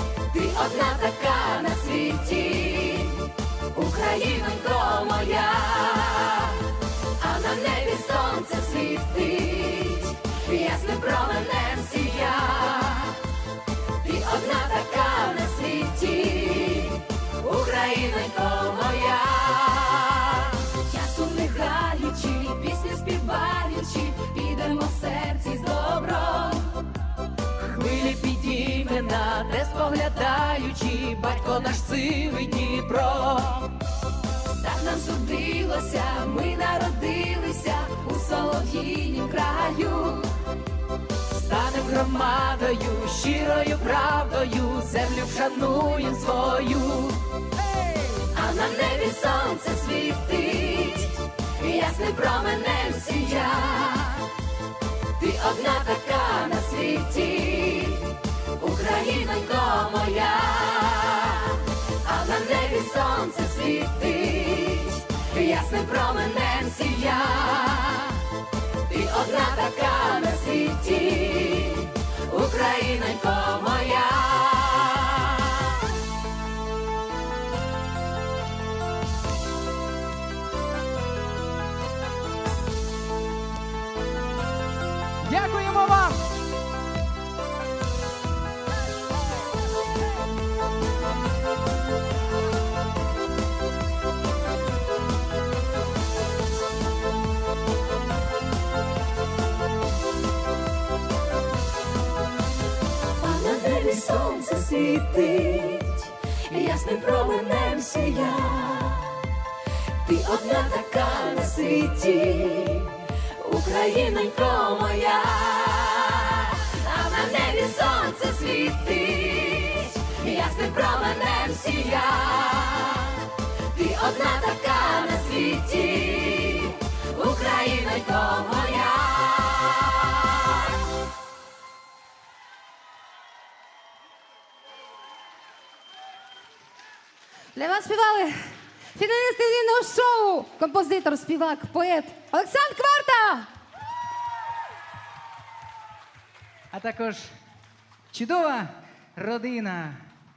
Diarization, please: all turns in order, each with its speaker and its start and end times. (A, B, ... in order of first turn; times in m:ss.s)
0:00.3-0:13.2 A
0:14.0-0:26.9 A
0:27.6-0:33.8 A
0:34.5-0:40.4 A
0:41.3-0:47.3 A
0:48.3-0:54.3 A
0:55.2-1:08.3 A
1:08.9-1:15.8 A
1:25.2-1:26.2 B
1:43.2-1:49.2 A
1:50.0-2:10.7 A
2:17.6-2:18.4 C
2:17.8-2:18.2 A
2:19.0-2:23.5 C
2:19.5-2:22.3 A
2:26.7-2:27.3 B
2:28.1-2:30.0 B